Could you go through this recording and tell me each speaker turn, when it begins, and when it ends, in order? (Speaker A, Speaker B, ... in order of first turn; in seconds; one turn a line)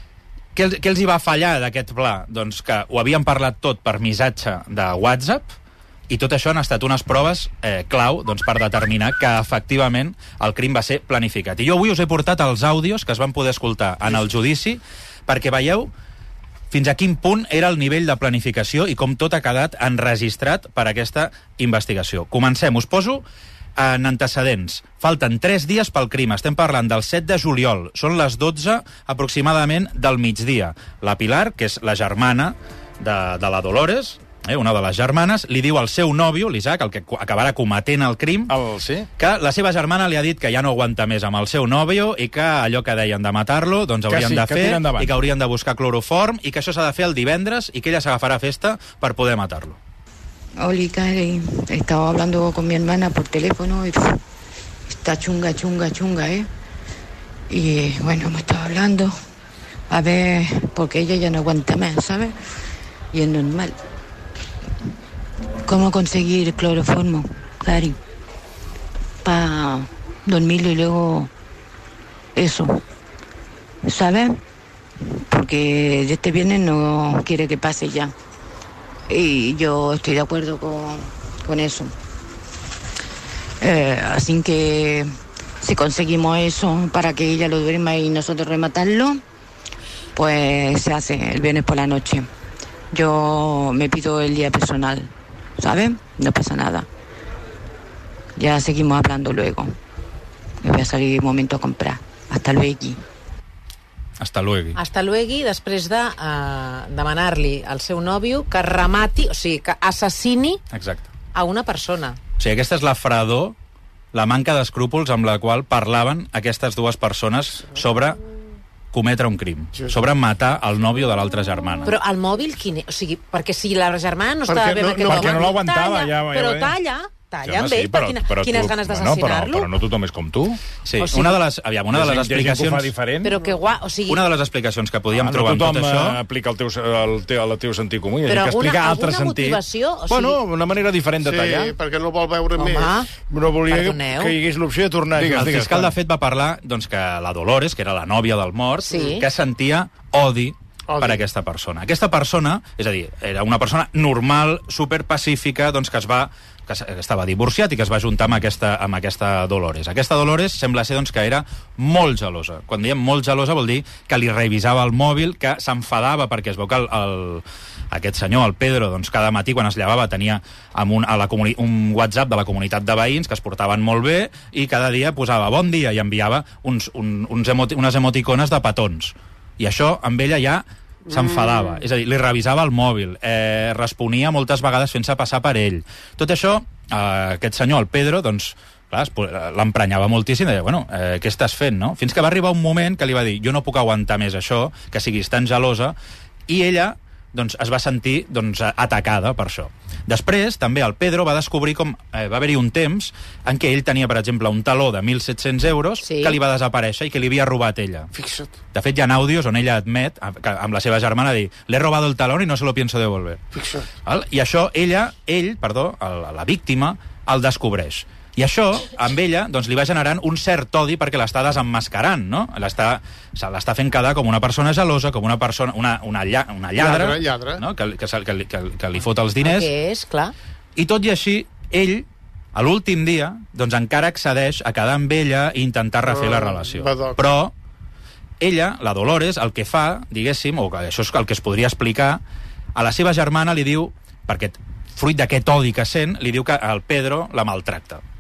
Speaker A: 0.6-5.5
Speaker A: 6.1-15.9
Speaker A: 16.7-23.2
Speaker A: 23.8-38.5
Speaker B: 38.5-39.1
Speaker A: 39.2-49.8
Speaker B: 44.1-45.1
Speaker C: 50.6-54.2
Speaker C: 54.9-56.5
Speaker C: 57.5-59.1
Speaker C: 59.9-62.4
Speaker C: 63.1-63.8
Speaker C: 65.7-68.0
Speaker C: 69.2-71.3
Speaker C: 72.3-72.8
Speaker C: 73.8-74.4
Speaker C: 75.3-78.1
Speaker C: 79.1-81.9
Speaker C: 83.6-89.2
Speaker C: 90.2-92.3
Speaker C: 92.9-96.9
Speaker C: 98.4-99.7
Speaker C: 100.6-103.0
Speaker A: 104.2-104.8
Speaker D: 104.8-110.6
Speaker A: 110.7-111.1
Speaker D: 111.3-112.2
Speaker A: 112.4-113.5
Speaker A: 114.1-118.2
Speaker A: 118.9-121.9
Speaker D: 121.9-129.7
Speaker E: 124.5-125.5
Speaker B: 125.0-126.8
Speaker B: 127.5-130.6
Speaker A: 130.8-132.9
Speaker D: 131.0-131.4
Speaker B: 131.9-133.3
Speaker D: 133.2-134.3
Speaker A: 134.1-136.2
Speaker B: 135.1-141.7
Speaker D: 138.3-140.4
Speaker E: 141.2-143.0
Speaker D: 142.6-143.1
Speaker F: 143.3-145.4
Speaker D: 143.7-144.4
Speaker B: 145.2-145.9
Speaker A: 145.3-195.9
Speaker D: 148.9-149.3
Speaker E: 150.9-151.2
Speaker E: 181.1-181.8
Speaker A: 196.5-208.1
Speaker D: 206.0-206.4
Speaker E: 208.1-208.5
Speaker A: 208.7-213.4
Speaker E: 213.5-213.9
Speaker A: 214.1-229.7
Speaker E: 226.8-227.6
Speaker D: 229.4-230.3
Speaker A: 230.8-237.5
Speaker E: 236.1-237.2
Speaker A: 238.4-242.2
Speaker A: 242.8-248.0